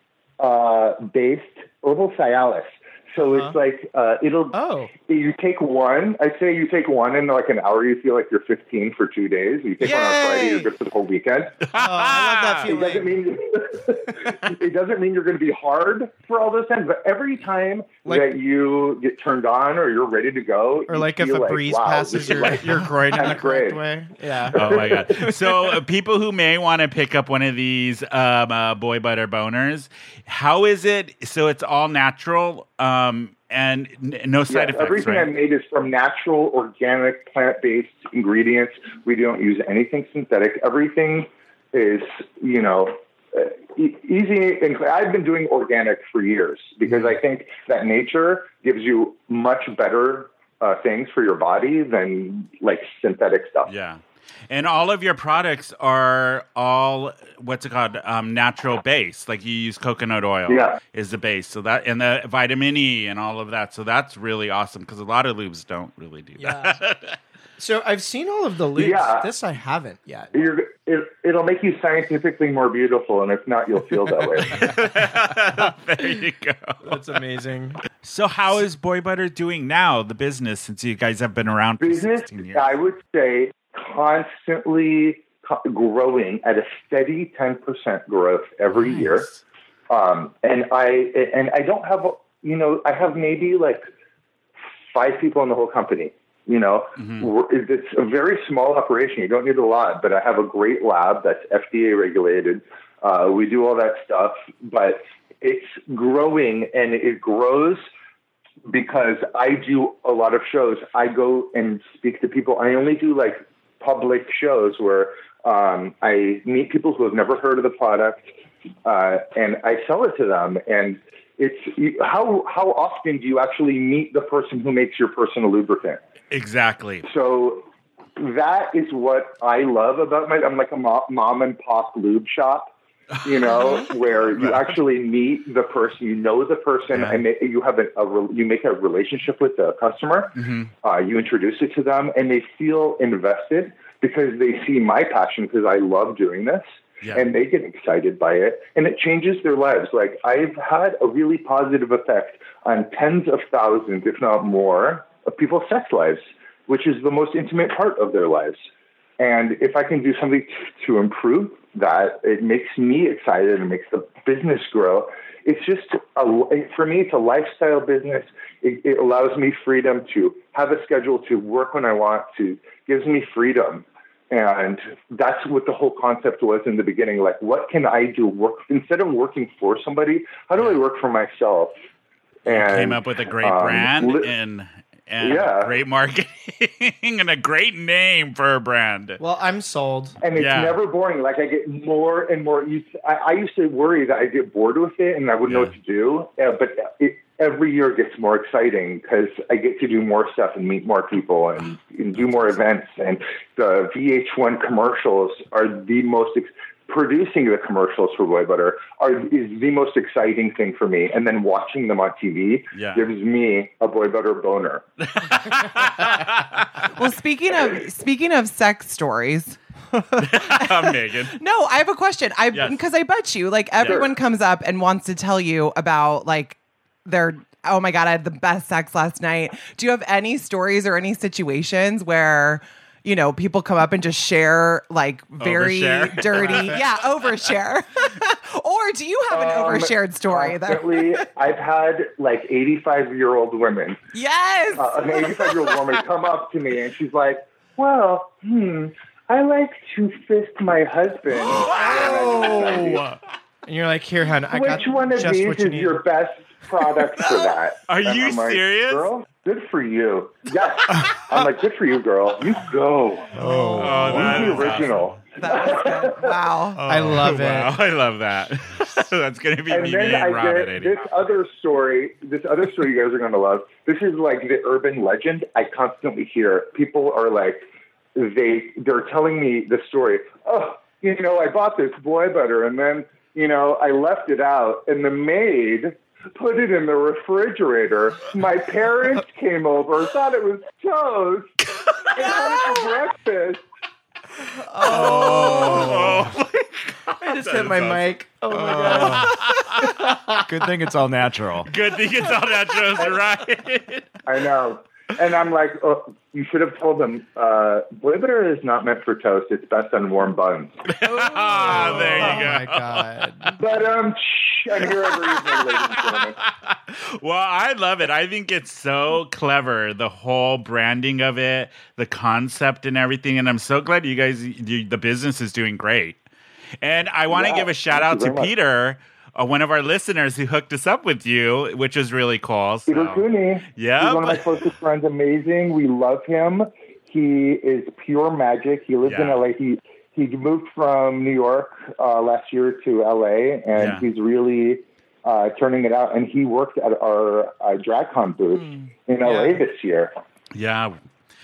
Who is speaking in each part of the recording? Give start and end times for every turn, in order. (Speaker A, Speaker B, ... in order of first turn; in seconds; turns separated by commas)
Speaker A: 0.4-11.6, Speaker B: 3.2-3.5, Speaker B: 4.5-4.9, Speaker B: 9.8-10.6, Speaker C: 11.6-12.8, Speaker B: 11.7-13.1, Speaker A: 12.6-23.8, Speaker B: 20.9-25.4, Speaker A: 24.4-25.3, Speaker C: 24.5-35.3, Speaker A: 34.5-53.7, Speaker C: 53.7-67.2, Speaker A: 60.5-60.8, Speaker B: 66.4-66.8, Speaker B: 67.6-70.5, Speaker A: 68.8-69.3, Speaker A: 70.3-74.7, Speaker C: 74.4-76.9, Speaker B: 76.8-77.8, Speaker C: 78.0-82.7, Speaker A: 81.8-89.3, Speaker C: 88.7-89.4, Speaker A: 89.9-93.8, Speaker A: 94.9-107.8, Speaker C: 97.0-97.3, Speaker A: 108.7-118.3, Speaker A: 118.8-126.0, Speaker C: 126.3-127.1, Speaker A: 127.0-132.7, Speaker C: 133.2-134.8, Speaker A: 133.2-158.6, Speaker C: 136.9-137.2, Speaker C: 140.4-140.7, Speaker A: 159.2-181.8, Speaker A: 182.4-184.3, Speaker C: 182.5-189.2, Speaker A: 185.2-185.8, Speaker B: 189.2-190.2, Speaker A: 190.2-214.9, Speaker C: 190.3-190.8, Speaker C: 212.7-213.1, Speaker C: 215.1-216.8, Speaker D: 216.9-219.6, Speaker C: 220.2-221.4, Speaker D: 220.3-241.3, Speaker C: 223.8-224.0, Speaker A: 223.8-224.1, Speaker C: 235.4-237.2, Speaker A: 239.3-244.0, Speaker D: 244.1-245.7, Speaker A: 244.8-253.1, Speaker B: 253.7-256.0, Speaker A: 254.5-266.4, Speaker C: 257.9-259.1, Speaker B: 263.4-264.6, Speaker E: 263.4-264.0, Speaker C: 263.8-265.2, Speaker D: 265.4-266.8, Speaker E: 266.8-267.3, Speaker B: 266.9-267.7, Speaker C: 267.1-271.0, Speaker A: 269.7-291.6, Speaker C: 291.8-292.4, Speaker A: 292.1-293.6, Speaker B: 294.6-296.2, Speaker C: 294.8-298.1, Speaker B: 297.2-299.5, Speaker E: 298.5-299.4, Speaker C: 299.0-300.0, Speaker E: 300.4-301.7, Speaker C: 301.7-304.2, Speaker A: 304.3-310.9, Speaker C: 310.9-313.5, Speaker B: 311.5-313.6, Speaker A: 313.6-316.4, Speaker C: 315.0-326.2, Speaker C: 326.8-333.2, Speaker A: 327.3-328.5, Speaker A: 332.9-350.1, Speaker C: 333.8-334.6, Speaker C: 339.1-339.4, Speaker C: 343.8-344.1, Speaker C: 350.5-351.0